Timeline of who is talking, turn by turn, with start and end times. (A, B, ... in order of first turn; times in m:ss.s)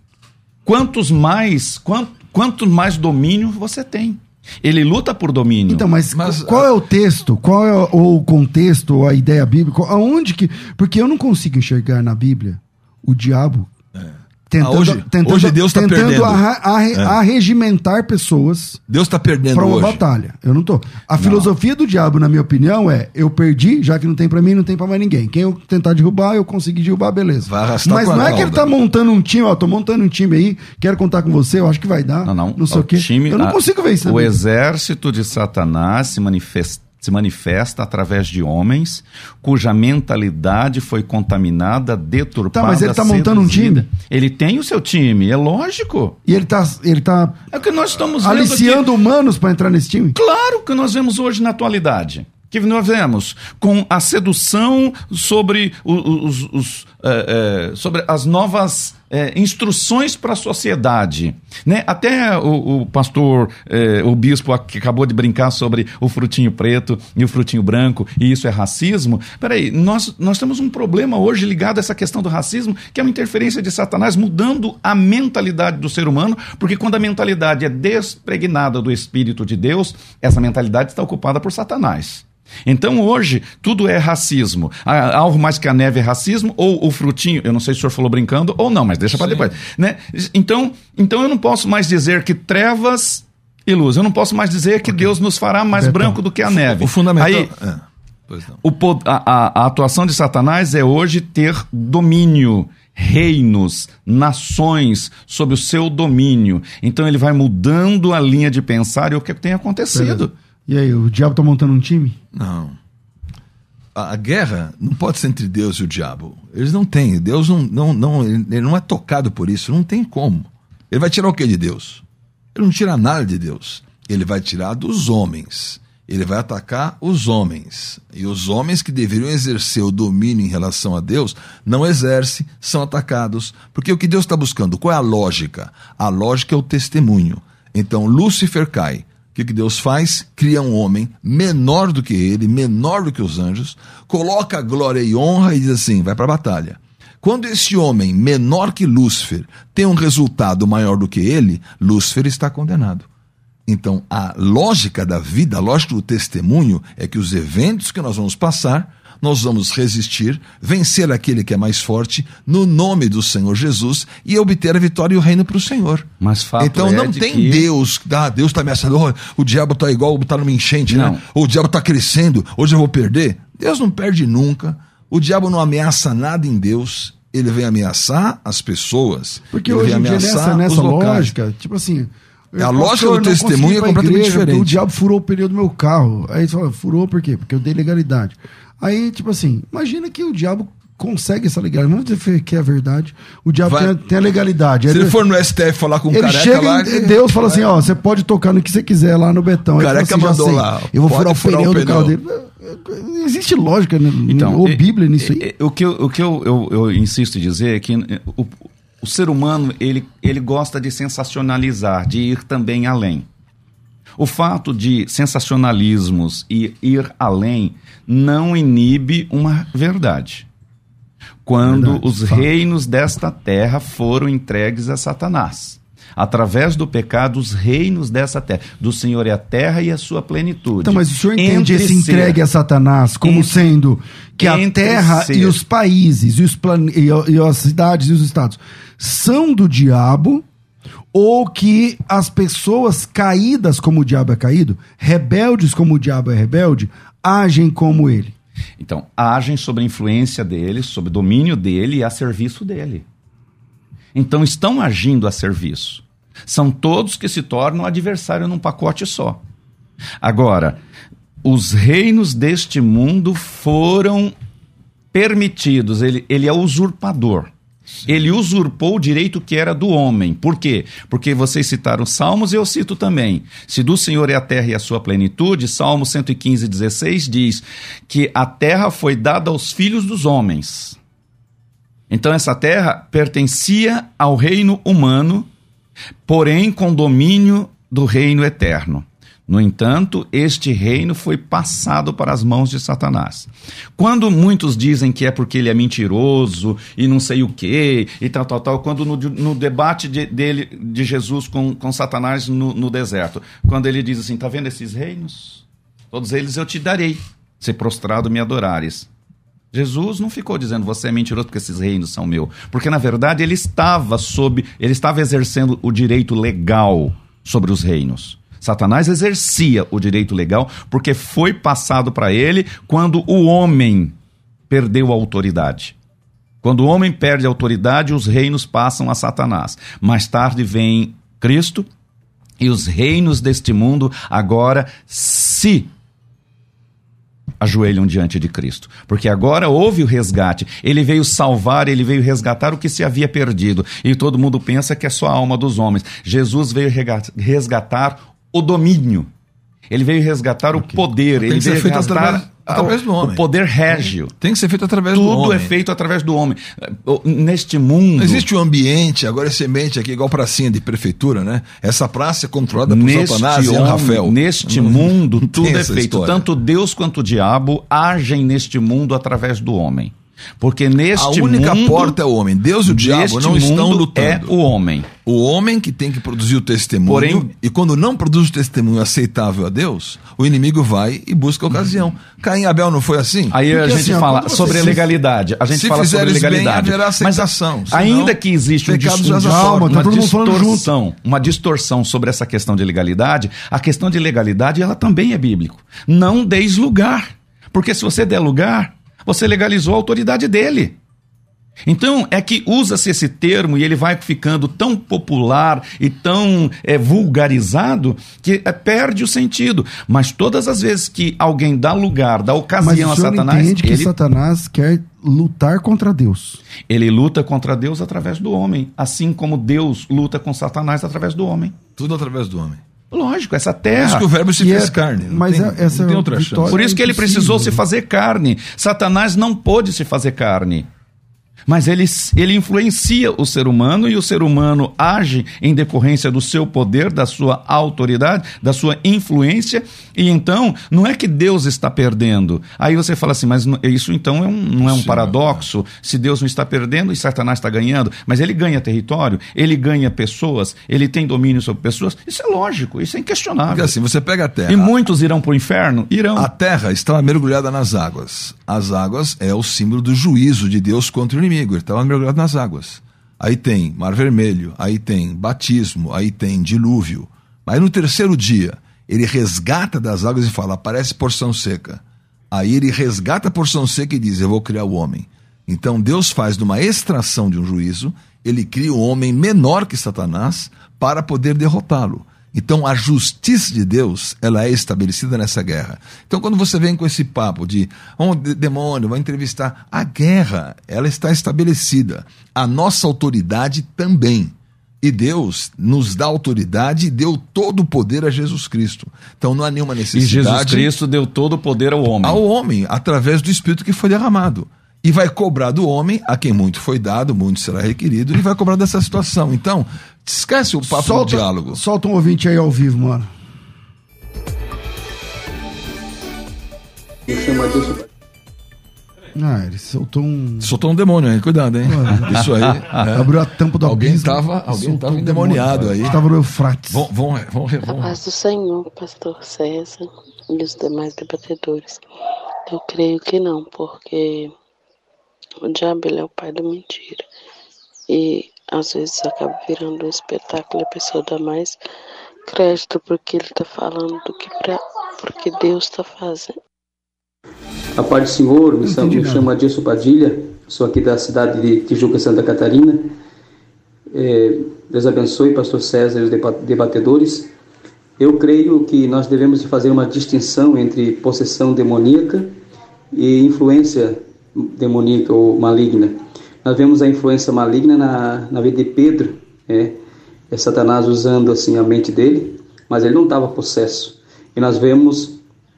0:00.7-0:05.9 A
0:05.7-0:13.7 B
0:06.1-0:06.7 C
0:14.0-0:17.2 C
0:14.5-0:18.8 B
0:18.9-0:20.0 C
0:19.5-0:34.4 B
0:21.2-0:21.5 A
0:27.4-0:28.7 C
0:32.2-0:46.2 A
0:42.5-0:43.9 B
0:46.3-0:47.4 B
0:47.5-0:48.9 A
0:48.1-0:50.2 B
0:50.1-1:37.5 A
1:29.1-1:29.6 C
1:35.7-1:36.2 B
1:36.5-1:38.6 C
1:38.6-1:50.3 A
1:49.9-1:52.2 B
1:52.3-1:52.8 C
1:54.0-2:33.1 C
2:33.7-3:01.4 C
2:46.2-2:47.7 A
2:50.9-2:51.2 A
2:59.5-3:15.2 B
3:02.6-3:04.8 C
3:13.6-3:13.9 C
3:14.9-3:17.7 C
3:16.1-3:25.5 B
3:19.8-3:22.2 C
3:24.3-3:33.3 A
3:34.2-3:40.4 A
3:41.4-3:52.4 A
3:41.6-3:42.5 B
3:50.8-4:00.4 B
3:53.2-3:53.5 A
3:54.4-3:55.6 A
4:01.1-4:08.4 B
4:08.8-4:13.1 A
4:14.1-4:19.4 A
4:20.2-4:20.8 A
4:21.4-4:24.3 A
4:25.1-4:27.5 A
4:28.1-4:41.0 A
4:42.1-4:45.5 A
4:46.3-5:09.1 A
5:09.7-5:24.1 A
5:24.7-5:26.0 A
5:26.6-5:31.9 A
5:32.6-5:35.9 A
5:37.6-5:49.3 A
5:49.9-5:54.3 A
5:51.4-5:55.7 C
5:55.1-5:58.4 A
5:58.2-6:06.5 C
6:02.9-6:12.2 A
6:11.1-6:14.6 C
6:12.8-6:15.1 A
6:15.2-6:23.6 C
6:17.1-6:17.5 A
6:23.5-6:41.0 A
6:23.7-6:25.1 B
6:25.7-6:30.3 C
6:29.4-6:30.9 B
6:41.9-6:54.1 A
6:52.8-6:56.6 B
6:56.9-7:01.7 A
7:02.0-7:02.8 C
7:03.1-7:04.3 A
7:03.9-7:06.8 C
7:04.6-7:07.8 B
7:06.7-7:10.9 A
7:11.7-7:33.9 A
7:24.8-7:25.6 C
7:33.7-7:34.9 C
7:34.7-7:36.5 A
7:36.4-8:20.9 C
8:20.1-8:22.4 A
8:22.2-8:31.8 C
8:30.8-8:33.3 B
8:37.3-8:38.1 D
8:39.4-8:40.7 B
8:40.6-8:46.2 C
8:41.8-8:47.1 B
8:46.9-8:48.2 C
8:47.9-8:52.0 E
8:52.7-8:54.6 E
8:55.6-8:57.3 E
8:58.1-9:01.8 E
9:02.4-9:06.6 E
9:08.0-9:13.2 D
9:08.8-9:09.5 B
9:14.1-9:17.5 D
9:18.2-9:22.6 D
9:23.1-9:30.0 D
9:30.5-9:35.4 D